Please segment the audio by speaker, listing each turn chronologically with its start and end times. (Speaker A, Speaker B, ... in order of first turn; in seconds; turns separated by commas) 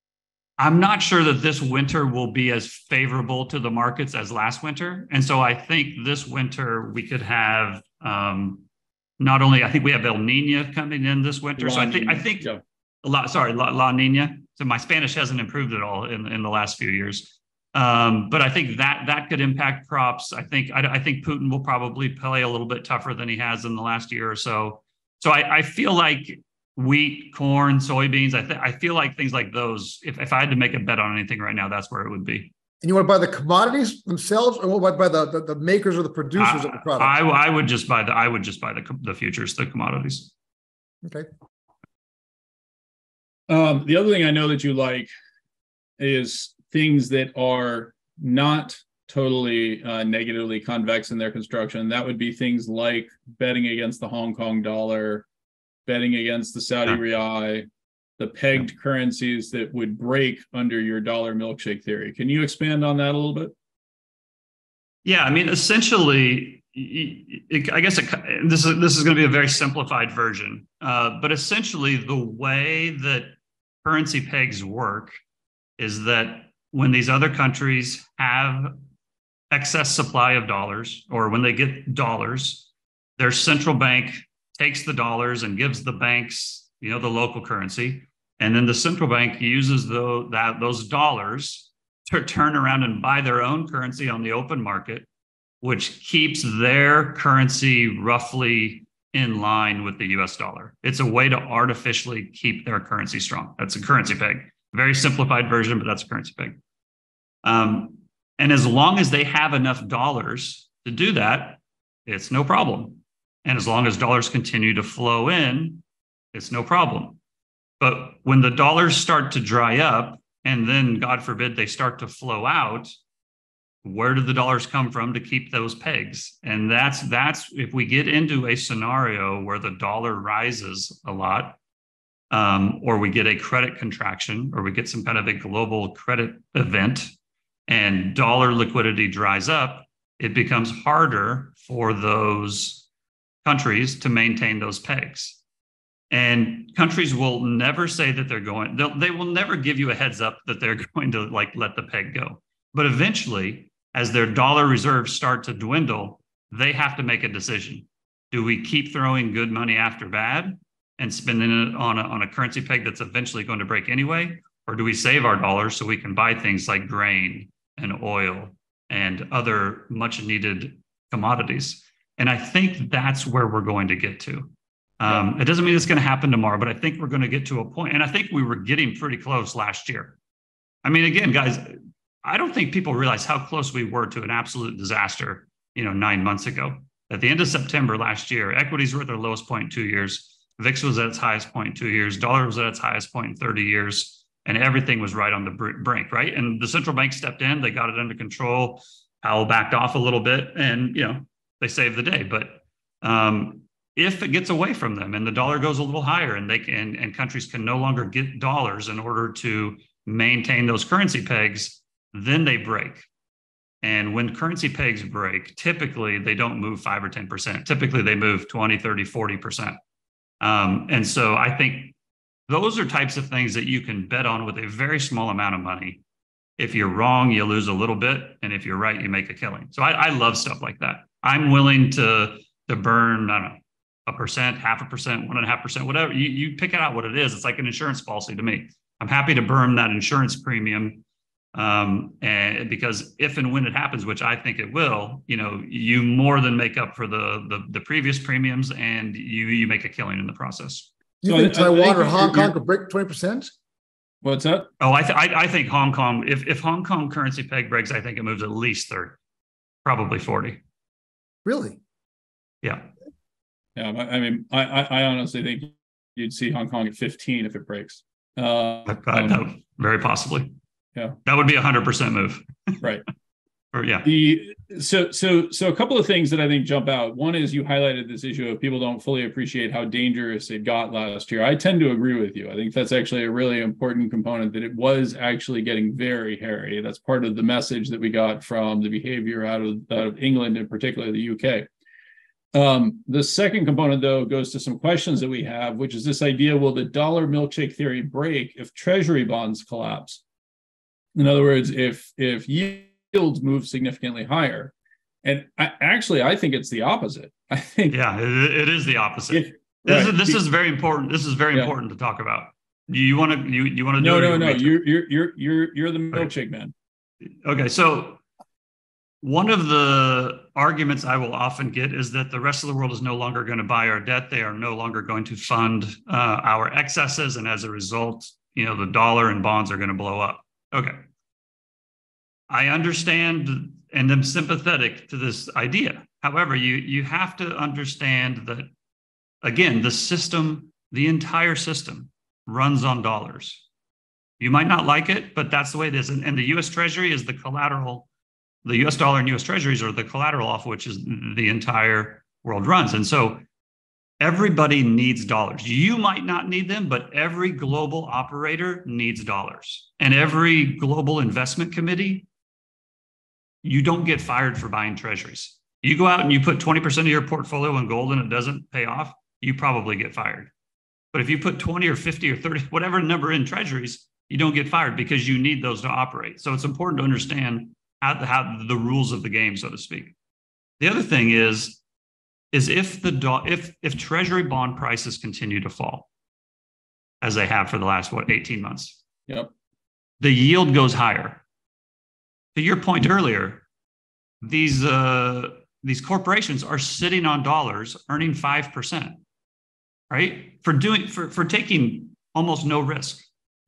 Speaker A: 0.6-8.6, Speaker A: 9.2-12.5, Speaker B: 11.6-12.6, Speaker A: 13.0-32.5, Speaker C: 32.8-37.2, Speaker A: 36.4-40.3, Speaker B: 43.5-45.1, Speaker B: 46.0-55.2, Speaker B: 55.9-57.6, Speaker B: 58.2-63.5, Speaker A: 65.0-75.2, Speaker A: 75.8-78.8, Speaker A: 79.5-95.1, Speaker A: 95.6-106.6, Speaker A: 107.4-117.2, Speaker A: 117.8-122.9, Speaker A: 123.8-131.6, Speaker A: 132.3-137.1, Speaker A: 137.7-142.9, Speaker A: 143.4-145.4, Speaker A: 146.1-180.2, Speaker A: 180.8-213.1, Speaker A: 213.8-219.8, Speaker A: 220.4-221.9, Speaker A: 222.5-226.0, Speaker A: 226.6-241.0, Speaker A: 241.5-250.9, Speaker C: 251.2-253.5, Speaker B: 251.2-252.5, Speaker B: 254.2-254.7, Speaker A: 254.8-259.2, Speaker A: 259.8-260.6, Speaker C: 261.4-261.8, Speaker A: 262.6-262.9, Speaker B: 263.8-269.4, Speaker A: 268.9-270.5, Speaker A: 271.2-272.8, Speaker A: 273.7-274.1, Speaker B: 274.0-291.7, Speaker B: 292.5-300.2, Speaker B: 301.1-304.7, Speaker B: 305.2-307.9, Speaker A: 307.9-314.8, Speaker B: 309.3-310.4, Speaker B: 314.0-316.7, Speaker A: 317.4-318.2, Speaker A: 319.2-331.0, Speaker A: 332.5-338.7, Speaker A: 339.4-343.6, Speaker A: 344.4-348.1, Speaker A: 348.6-353.4, Speaker A: 354.2-362.2, Speaker A: 363.6-370.5, Speaker A: 371.1-380.1, Speaker A: 380.8-381.8, Speaker A: 382.5-386.1, Speaker A: 387.2-389.0, Speaker A: 390.2-391.4, Speaker A: 392.5-393.6, Speaker A: 394.4-399.2, Speaker A: 400.1-403.3